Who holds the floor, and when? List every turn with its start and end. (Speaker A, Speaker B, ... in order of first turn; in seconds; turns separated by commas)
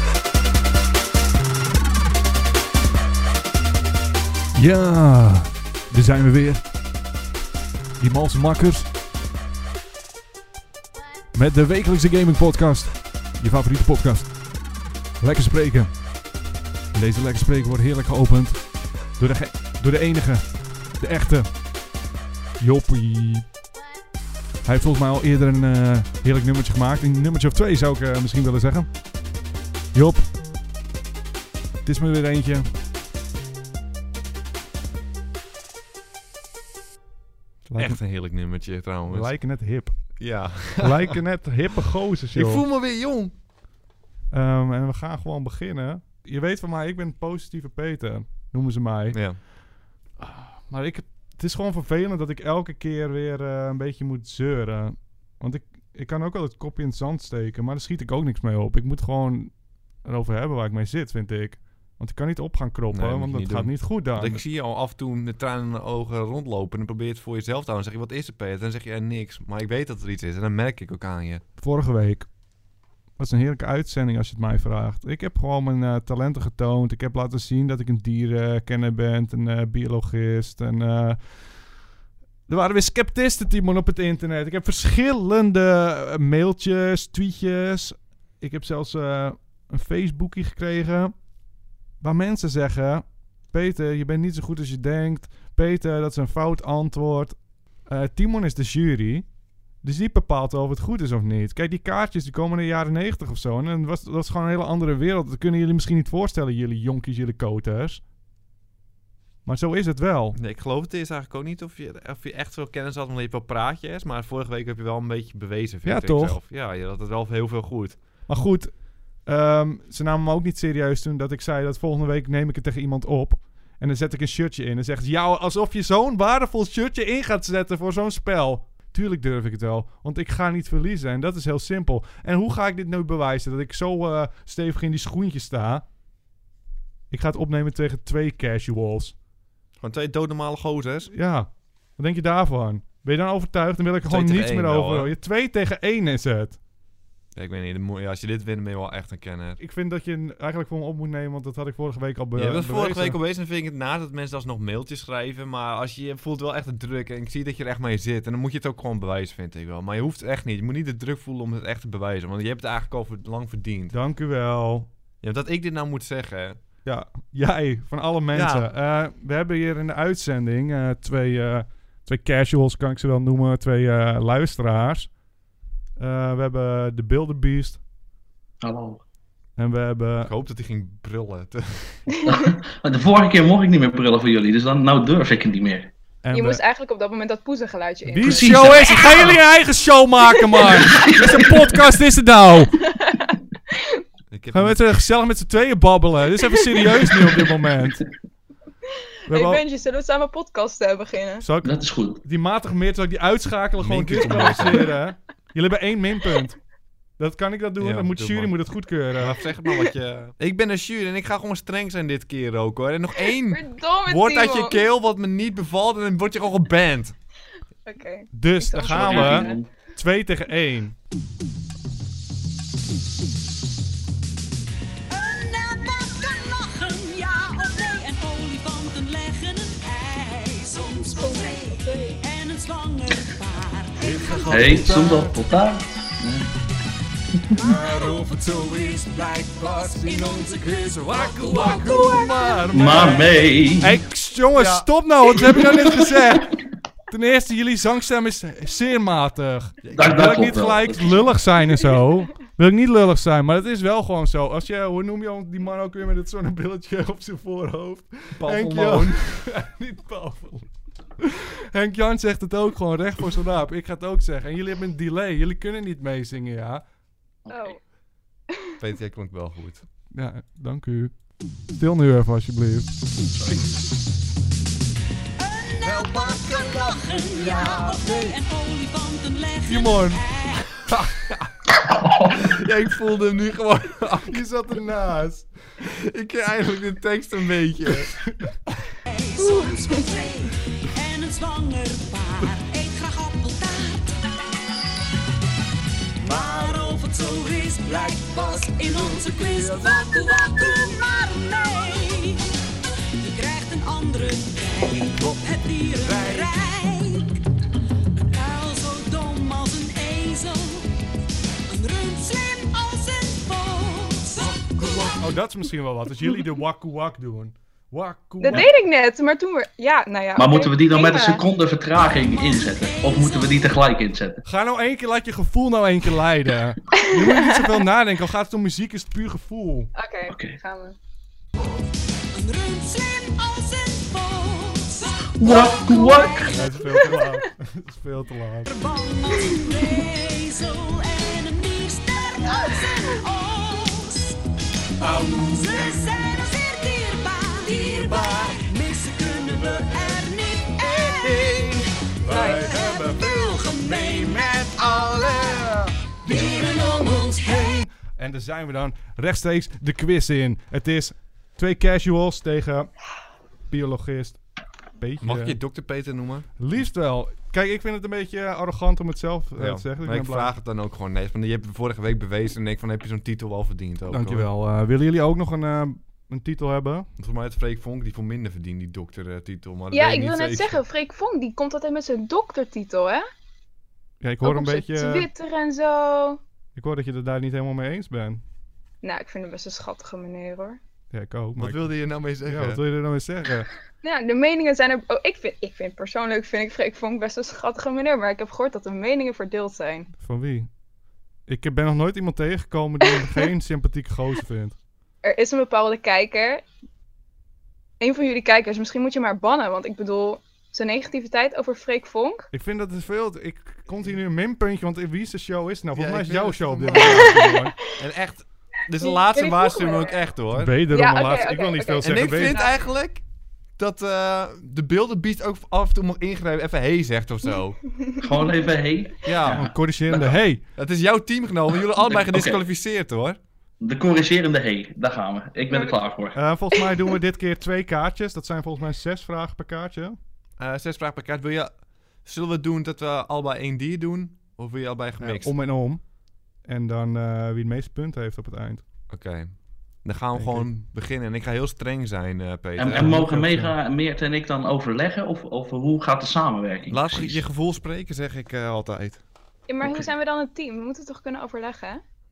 Speaker A: 4.5-6.7, Speaker A: 8.0-8.9, Speaker A: 11.3-14.4, Speaker A: 15.2-16.1, Speaker A: 16.9-21.6, Speaker A: 22.6-23.5, Speaker A: 24.6-28.9, Speaker A: 29.9-30.3, Speaker A: 31.8-32.7, Speaker A: 37.7-38.0, Speaker B: 37.8-39.4, Speaker A: 39.1-40.2, Speaker B: 40.2-41.2, Speaker A: 40.7-42.6, Speaker B: 42.3-43.3, Speaker A: 44.3-49.4, Speaker B: 49.1-49.4, Speaker A: 50.2-64.4, Speaker B: 62.9-71.4, Speaker A: 71.6-72.3, Speaker A: 73.2-81.7, Speaker A: 82.5-91.2, Speaker A: 92.0-99.3, Speaker A: 99.8-108.0, Speaker A: 109.5-110.4, Speaker B: 110.3-118.0, Speaker A: 115.8-116.4, Speaker A: 118.3-135.9, Speaker A: 137.1-139.2, Speaker B: 139.8-141.1, Speaker A: 141.1-146.6, Speaker B: 144.0-145.2, Speaker B: 147.3-149.6, Speaker A: 149.6-153.2, Speaker B: 152.4-163.9, Speaker A: 163.9-164.9, Speaker B: 165.2-166.6, Speaker A: 166.8-175.1, Speaker B: 168.3-168.7, Speaker A: 176.0-177.8, Speaker C: 178.6-179.0, Speaker A: 179.6-180.3, Speaker B: 180.2-182.1, Speaker C: 182.3-185.9, Speaker A: 186.2-186.6, Speaker D: 186.3-189.1, Speaker A: 188.1-192.8, Speaker C: 188.2-189.4, Speaker D: 190.5-191.0, Speaker C: 190.8-191.4, Speaker D: 192.8-194.0, Speaker B: 194.3-194.8, Speaker A: 194.5-198.0, Speaker A: 199.3-199.6, Speaker D: 199.3-201.5, Speaker A: 201.4-206.6, Speaker C: 201.6-202.2, Speaker B: 203.8-204.9, Speaker A: 207.2-209.4, Speaker B: 207.8-208.5, Speaker B: 209.2-217.2, Speaker D: 213.5-214.8, Speaker D: 217.9-219.7, Speaker A: 218.3-220.9, Speaker C: 218.9-219.7, Speaker E: 225.1-235.0, Speaker D: 231.0-232.2, Speaker D: 234.1-234.4, Speaker C: 234.5-236.5, Speaker A: 234.5-235.4, Speaker E: 237.6-243.0, Speaker A: 241.1-243.3, Speaker C: 242.7-244.0, Speaker A: 243.8-266.8, Speaker B: 244.6-244.9, Speaker C: 245.8-246.6, Speaker B: 249.8-250.5, Speaker C: 249.9-251.4, Speaker B: 258.4-259.2, Speaker C: 267.4-267.8, Speaker D: 267.5-267.8, Speaker B: 268.8-269.9, Speaker A: 270.1-271.2, Speaker A: 271.7-272.9, Speaker C: 273.3-273.7, Speaker E: 275.4-280.8, Speaker B: 277.6-278.0, Speaker A: 279.7-280.2, Speaker B: 280.9-281.5, Speaker C: 281.7-282.5, Speaker B: 282.3-284.4, Speaker A: 284.3-285.5, Speaker B: 285.8-288.2, Speaker E: 289.1-294.1, Speaker D: 289.4-290.0, Speaker E: 296.2-302.4, Speaker E: 303.2-307.4, Speaker E: 308.3-310.9, Speaker E: 311.7-315.2, Speaker A: 314.4-318.7, Speaker D: 318.4-321.4, Speaker C: 320.4-324.4, Speaker E: 322.1-323.7, Speaker A: 324.4-329.9, Speaker D: 326.9-327.8, Speaker D: 329.9-331.0, Speaker C: 330.3-330.6, Speaker E: 332.3-335.3, Speaker C: 335.4-336.6, Speaker D: 335.4-337.3, Speaker A: 336.4-338.7, Speaker E: 338.7-344.4, Speaker D: 342.5-343.1, Speaker E: 345.0-355.7, Speaker A: 352.2-353.3, Speaker D: 352.3-352.8, Speaker A: 354.3-356.6, Speaker E: 356.2-357.9, Speaker A: 357.2-362.9, Speaker A: 363.7-364.4, Speaker A: 365.0-365.6, Speaker B: 365.2-366.5, Speaker A: 366.6-370.5, Speaker B: 369.6-374.5, Speaker A: 374.1-377.1, Speaker B: 377.2-380.8, Speaker D: 379.9-383.3, Speaker A: 384.2-385.3, Speaker D: 384.4-386.4, Speaker A: 386.8-388.4, Speaker D: 389.0-390.8, Speaker A: 391.1-393.7, Speaker B: 391.6-392.8, Speaker D: 394.0-400.1, Speaker A: 400.2-400.7, Speaker A: 401.5-404.8, Speaker D: 405.2-406.6, Speaker D: 408.0-412.5, Speaker A: 412.5-417.8, Speaker B: 415.9-420.8, Speaker D: 417.0-417.7, Speaker D: 419.0-420.2, Speaker A: 420.5-422.6, Speaker D: 420.9-422.8, Speaker B: 422.0-423.2, Speaker B: 423.8-427.8, Speaker D: 428.0-428.5, Speaker C: 428.2-430.4, Speaker B: 429.2-429.7, Speaker A: 429.4-430.6, Speaker B: 430.8-433.4, Speaker C: 432.1-432.6, Speaker C: 433.8-436.4, Speaker D: 435.7-436.0, Speaker A: 436.4-440.2, Speaker B: 440.6-445.6, Speaker A: 445.2-448.8, Speaker B: 449.1-453.2, Speaker A: 450.3-450.7, Speaker C: 452.8-457.4, Speaker A: 452.9-453.8, Speaker B: 456.9-459.2, Speaker D: 459.7-462.0